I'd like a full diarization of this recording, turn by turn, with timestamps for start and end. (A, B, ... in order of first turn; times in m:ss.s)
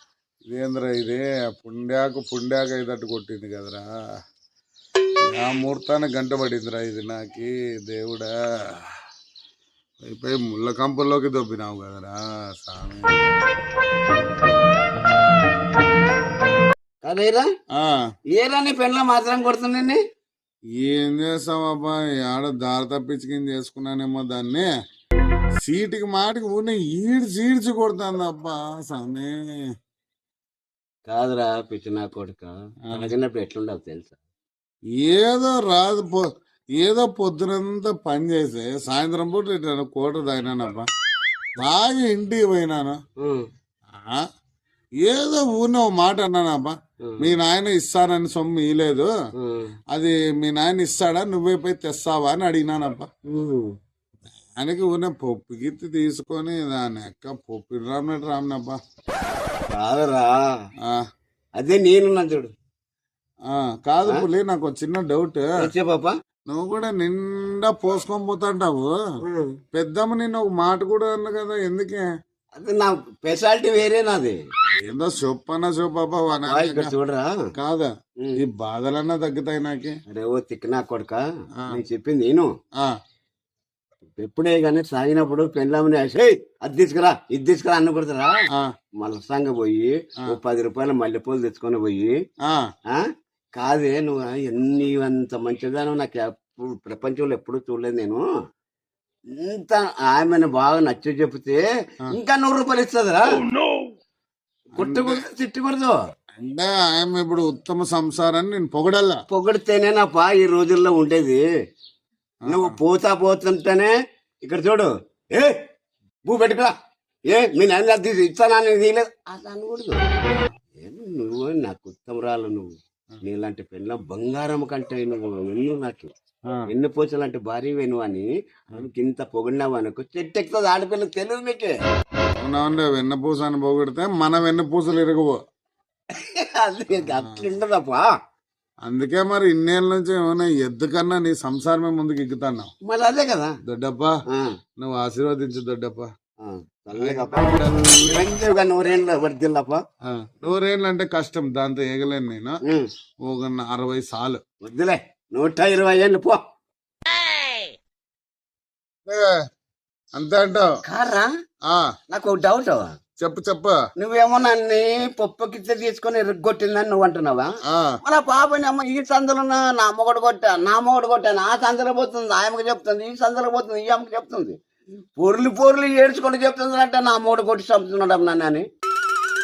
0:00.4-0:03.9 A
0:05.3-0:08.3 A
0:10.0-0:13.3 A
0:17.0-0:17.5 B
0:18.3-0:20.0 B
0:20.8-0:24.6 A
0:25.6-0:29.3 A
0:31.1-0:34.2 B
0:35.0-0:36.2 A
0:36.8-0:40.8 A
0:41.6-0:43.0 A
0:43.2-0:43.4 B
0:44.0-0:44.2 A
0:45.0-0:49.1 A
0:47.0-0:47.3 B
0:49.4-0:49.7 B
0:49.9-0:53.1 A
0:53.3-0:53.7 B
0:54.6-0:58.8 A
0:59.7-1:00.4 B
1:01.6-1:02.5 B
1:03.5-1:05.5 A
1:05.6-1:06.1 B
1:06.5-1:08.9 A
1:09.2-1:09.5 B
1:09.7-1:12.0 A
1:12.6-1:14.4 B
1:14.8-1:16.9 A
1:16.5-1:17.3 B
1:17.5-1:19.9 A
1:20.1-1:22.5 B
1:24.2-1:28.3 B
1:29.0-1:32.2 B
1:32.9-1:38.2 B
1:39.4-1:43.4 B
1:44.7-1:46.0 B
1:44.8-1:45.2 A
1:46.4-1:49.2 A
1:49.3-1:51.4 B
1:52.4-1:52.8 A
1:52.5-1:53.9 B
1:54.4-1:55.6 B
1:56.2-1:56.7 B
1:57.3-2:00.1 B
2:00.8-2:06.1 B
2:06.7-2:11.7 B
2:12.4-2:15.4 A
2:16.1-2:18.1 B
2:17.0-2:17.4 A
2:18.8-2:22.7 A
2:22.8-2:23.5 B
2:23.6-2:24.1 A
2:24.8-2:26.1 A
2:26.4-2:29.8 B
2:26.9-2:28.3 A
2:30.0-2:32.6 A
2:33.2-2:34.4 A
2:34.6-2:36.4 B
2:39.0-2:39.4 A
2:40.1-2:40.7 A
2:40.8-2:41.3 B
2:42.1-2:42.9 B
2:43.2-2:43.8 A
2:44.0-2:47.5 B
2:47.7-2:48.0 A
2:48.0-2:54.6 B
2:55.2-2:58.6 B